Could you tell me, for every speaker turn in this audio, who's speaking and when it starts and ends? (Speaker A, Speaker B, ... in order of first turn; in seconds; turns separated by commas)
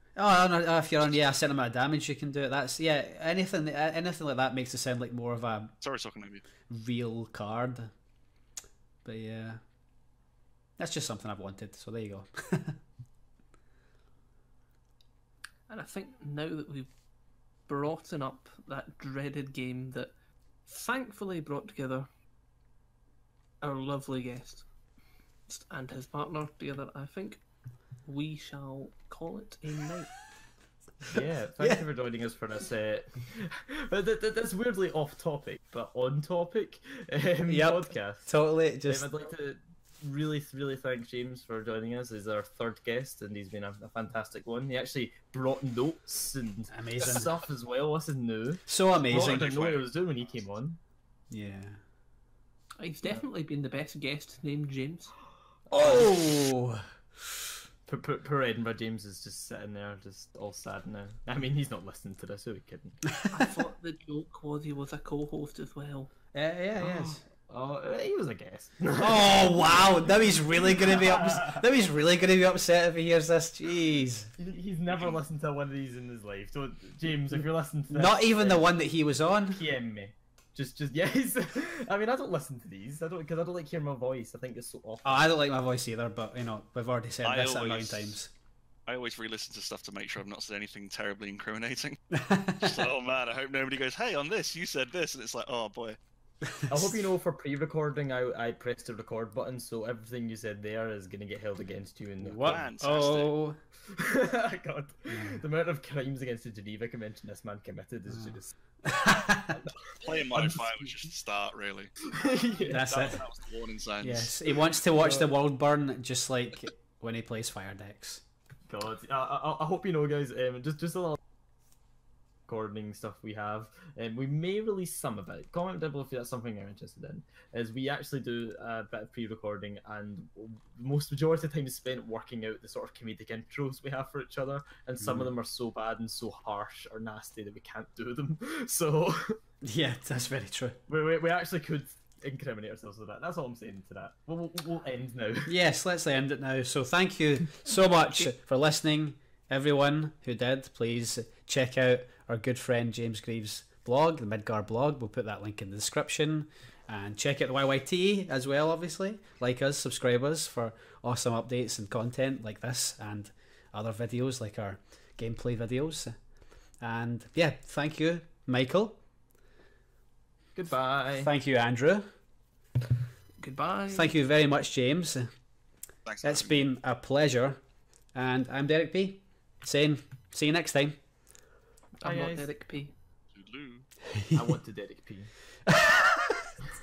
Speaker A: 0.2-5.7, Speaker B: 5.8-6.4, Speaker A: 6.7-7.9, Speaker A: 9.0-9.6, Speaker A: 10.8-12.8, Speaker C: 15.7-16.9, Speaker C: 17.6-20.1, Speaker C: 20.6-22.1, Speaker C: 23.6-24.6, Speaker C: 25.5-27.4, Speaker C: 28.0-30.1, Speaker D: 31.1-38.3, Speaker A: 31.1-31.8, Speaker A: 37.5-39.1, Speaker D: 38.9-50.8, Speaker A: 46.7-47.3, Speaker A: 48.7-49.5, Speaker B: 49.1-49.9, Speaker A: 51.3-51.8, Speaker C: 52.8-55.2, Speaker A: 55.7-56.9, Speaker D: 55.7-56.2, Speaker D: 57.9-63.0, Speaker A: 63.1-63.5, Speaker C: 63.3-66.1, Speaker A: 66.3-67.2, Speaker D: 66.8-71.6, Speaker A: 69.0-74.3, Speaker D: 74.4-78.7, Speaker B: 74.9-75.2, Speaker A: 77.9-79.6, Speaker D: 79.5-85.4, Speaker A: 85.0-88.3, Speaker B: 87.2-88.2, Speaker B: 88.9-92.0, Speaker A: 92.1-92.9, Speaker B: 92.6-96.0, Speaker A: 96.5-96.8, Speaker D: 96.7-102.6, Speaker A: 102.2-103.6, Speaker B: 102.4-103.3, Speaker D: 103.8-110.9, Speaker A: 105.1-105.4, Speaker A: 108.1-109.6, Speaker B: 110.0-112.1, Speaker D: 112.1-113.1, Speaker A: 112.6-113.2, Speaker B: 112.7-114.5, Speaker A: 114.0-118.2, Speaker D: 114.9-115.3, Speaker D: 118.7-121.2, Speaker D: 122.5-139.4, Speaker A: 135.0-135.3, Speaker A: 139.6-140.8, Speaker D: 140.9-145.5, Speaker A: 145.4-166.2, Speaker C: 147.7-148.3, Speaker A: 166.8-169.0, Speaker D: 170.5-171.3, Speaker A: 171.2-172.1, Speaker C: 173.4-174.1, Speaker A: 173.9-175.3, Speaker B: 176.0-176.6, Speaker A: 176.2-177.6, Speaker A: 178.1-181.0, Speaker C: 182.0-182.9, Speaker D: 182.0-182.5, Speaker B: 183.3-183.9, Speaker D: 184.3-185.3, Speaker A: 185.7-186.5